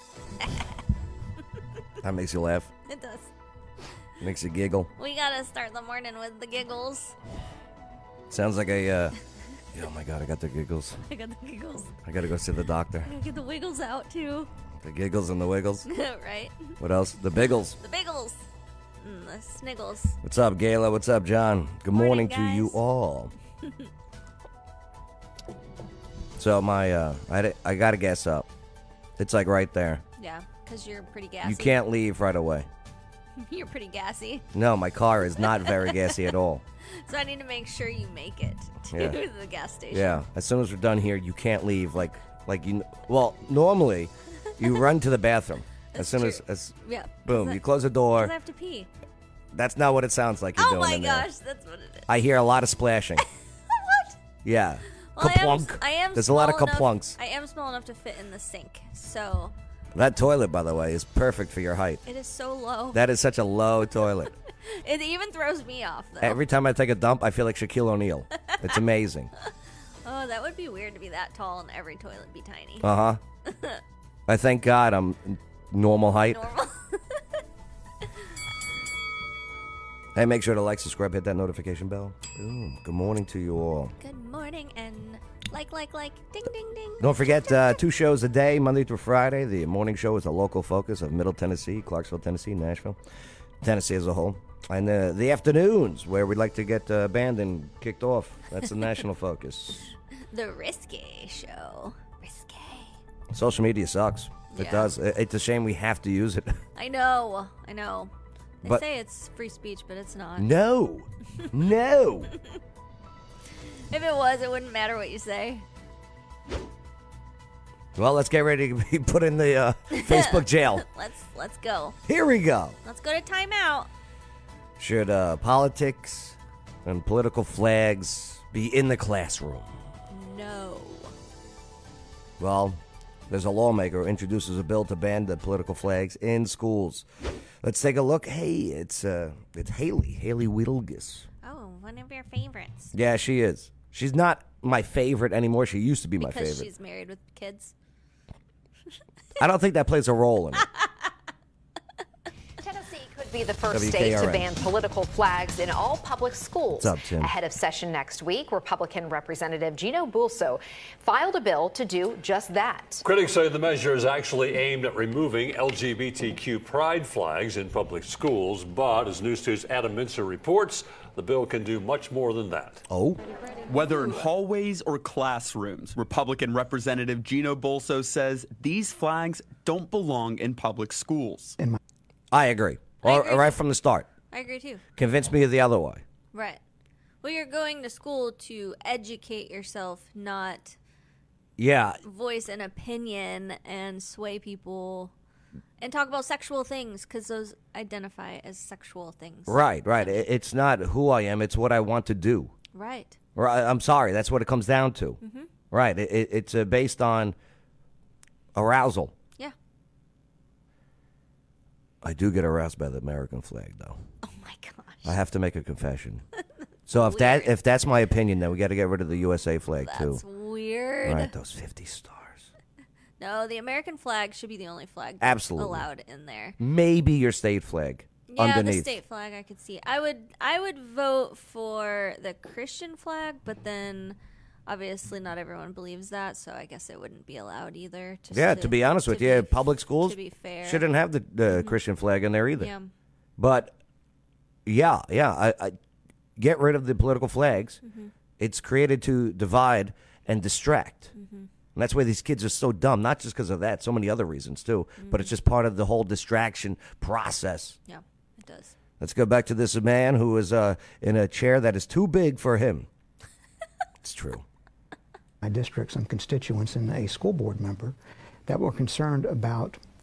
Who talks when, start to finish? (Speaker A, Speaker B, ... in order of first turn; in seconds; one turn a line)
Speaker A: 2.0-2.7
Speaker B: 2.9-3.3
Speaker A: 4.2-4.9
Speaker B: 5.0-7.2
Speaker A: 8.3-9.2
Speaker A: 9.7-11.0
Speaker B: 11.1-11.9
Speaker A: 12.0-13.1
Speaker B: 13.0-14.5
Speaker A: 14.8-15.9
Speaker B: 15.9-16.8
Speaker A: 16.8-17.8
Speaker B: 17.8-18.4
Speaker B: 19.0-20.2
Speaker A: 20.2-23.3
Speaker B: 21.9-22.8
Speaker B: 23.6-23.9
Speaker A: 26.4-28.5
Speaker A: 29.2-30.0
Speaker B: 30.2-31.8
Speaker A: 31.4-32.7
Speaker B: 33.4-34.5
Speaker A: 34.5-36.6
Speaker B: 35.4-36.2
Speaker B: 36.9-40.2
Speaker A: 38.9-39.2
Speaker A: 39.9-48.3
Speaker B: 45.9-47.6
Speaker B: 48.1-48.9
Speaker A: 49.5-51.3
Speaker B: 50.6-52.1
Speaker A: 52.1-53.2
Speaker B: 53.7-54.1
Speaker A: 54.4-57.2
Speaker B: 55.1-59.5
Speaker A: 60.0-62.0
Speaker B: 62.1-63.0
Speaker A: 62.9-64.3
Speaker B: 64.7-66.4
Speaker A: 66.2-69.3
Speaker B: 70.0-72.9
Speaker A: 72.8-73.2
Speaker B: 73.5-73.8
Speaker A: 74.3-76.4
Speaker B: 76.3-77.2
Speaker A: 80.2-84.0
Speaker B: 84.0-87.8
Speaker A: 87.0-93.0
Speaker A: 93.6-99.9
Speaker B: 100.3-103.0
Speaker A: 103.3-106.6
Speaker B: 104.5-104.9
Speaker B: 106.8-108.1
Speaker B: 108.6-110.5
Speaker A: 110.4-112.3
Speaker B: 113.9-115.7
Speaker A: 118.0-120.8
Speaker B: 119.9-122.0
Speaker A: 122.1-122.8
Speaker B: 122.8-123.9
Speaker A: 124.8-129.7
Speaker B: 130.1-131.1
Speaker A: 132.4-137.1
Speaker A: 137.6-141.3
Speaker B: 141.4-142.9
Speaker A: 142.9-146.7
Speaker B: 146.2-147.7
Speaker A: 149.4-150.7
Speaker C: 152.6-163.0
Speaker A: 153.7-154.5
Speaker A: 156.8-157.3
Speaker D: 163.0-172.8
Speaker A: 172.9-173.2
Speaker E: 173.7-181.6
Speaker A: 182.3-184.1
Speaker B: 183.0-183.6
Speaker B: 184.3-184.8
Speaker A: 185.0-186.0
Speaker B: 186.3-186.6
Speaker B: 187.2-190.8
Speaker A: 191.6-192.0
Speaker B: 192.0-195.1
Speaker B: 195.8-200.2
Speaker A: 199.5-202.5
Speaker B: 202.7-203.2
Speaker A: 203.3-205.2
Speaker B: 205.2-205.5
Speaker A: 205.7-207.4
Speaker A: 208.6-209.1
Speaker A: 212.0-214.0
Speaker B: 214.2-215.2
Speaker A: 215.1-216.2
Speaker A: 216.9-220.2
Speaker B: 216.9-217.5
Speaker B: 219.8-221.3
Speaker A: 221.0-222.5
Speaker B: 223.2-226.6
Speaker A: 225.2-225.9
Speaker A: 226.6-228.9
Speaker B: 228.3-240.9
Speaker A: 238.3-242.7
Speaker B: 241.5-241.8
Speaker B: 242.6-242.9
Speaker A: 243.4-243.8
Speaker A: 244.7-245.8
Speaker A: 246.4-247.8
Speaker B: 247.8-248.1
Speaker A: 248.4-251.1
Speaker B: 251.2-251.5
Speaker A: 251.8-257.8
Speaker B: 255.0-255.3
Speaker B: 257.9-258.7
Speaker A: 259.0-262.9
Speaker A: 264.0-264.4
Speaker F: 265.4-268.0
Speaker F: 268.5-269.8